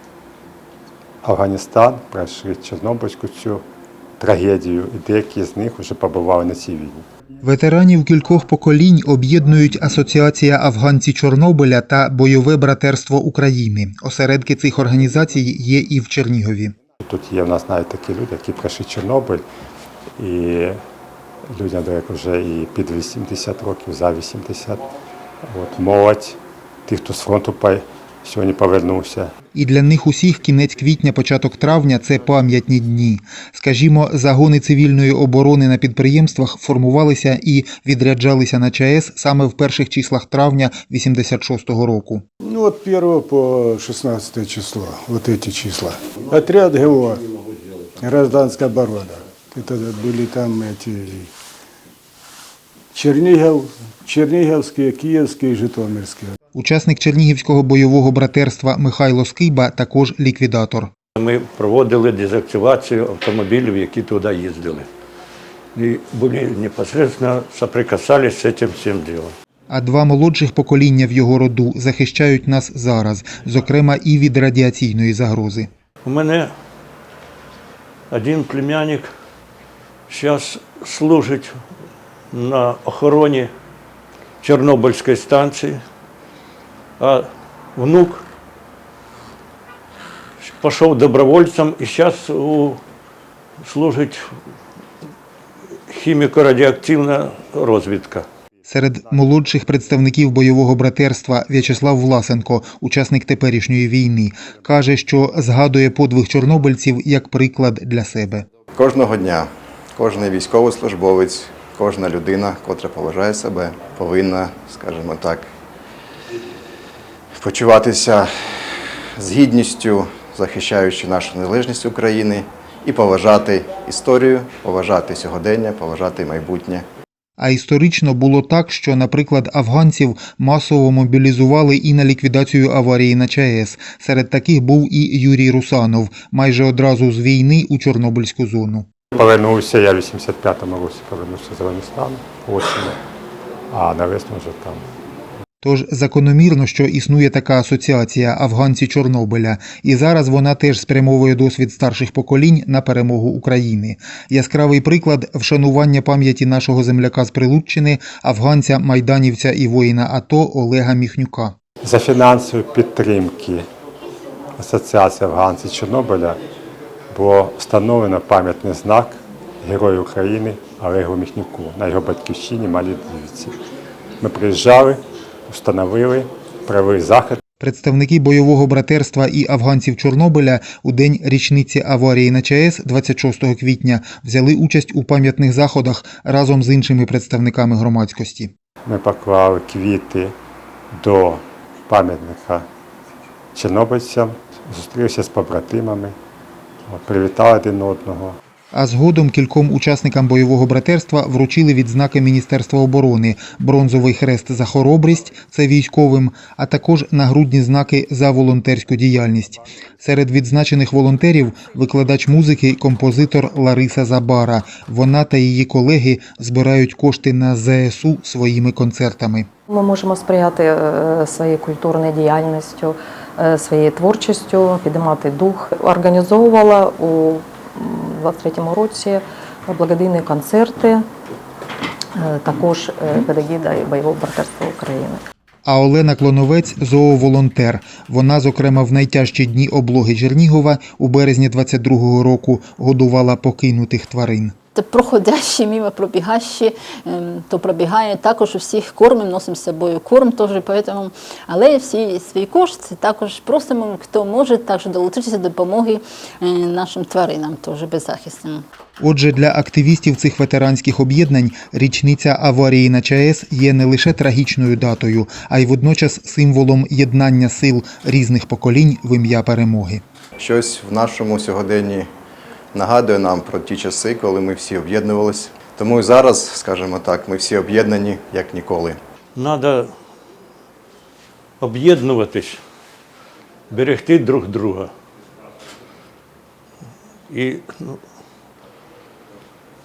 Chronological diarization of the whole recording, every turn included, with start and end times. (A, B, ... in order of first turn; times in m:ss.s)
0:01.2-0:03.6 A
0:04.2-0:07.1 A
0:07.4-0:16.8 B
0:17.0-0:19.4 A
0:20.2-0:20.8 A
0:21.5-0:24.8 A
0:25.5-0:29.3 A
0:29.5-0:42.2 B
0:42.5-0:47.2 C
0:48.0-0:51.2 C
0:53.0-0:56.3 C
0:56.6-1:00.9 B
1:01.2-1:04.9 D
1:05.8-1:09.3 D
1:09.7-1:15.7 B
1:16.0-1:16.5 D
1:18.1-1:19.1 D
1:20.1-1:21.6 D
1:22.3-1:23.5 D
1:24.4-1:25.8 D
1:27.0-1:28.2 D
1:30.4-1:32.8 D
1:33.6-1:34.2 D
1:35.9-1:38.2 D
1:38.7-1:48.5 B
1:48.8-1:55.5 E
1:57.4-1:58.3 E
1:59.2-2:06.8 E
2:07.4-2:18.9 B
2:19.2-2:23.0 A
2:23.7-2:24.8 A
2:25.6-2:41.6 B
2:41.8-2:43.7 A
2:44.6-2:46.4 A
2:47.1-2:53.6 A
2:54.2-2:57.4 A
2:57.6-3:08.5 B
3:08.9-3:10.4 A
3:10.9-3:12.7 A
3:13.6-3:16.2 A
3:16.9-3:18.4 A
3:18.7-3:39.5 B
3:39.7-3:51.0 F
3:52.2-3:55.2 F
3:55.7-4:04.6 B
4:04.8-4:18.6 G
4:19.0-4:30.0 B
4:30.4-4:32.1 E
4:32.7-4:39.0 E
4:39.4-4:39.9 D
4:41.6-4:42.6 D
4:43.7-4:44.9 D
4:47.3-4:48.0 D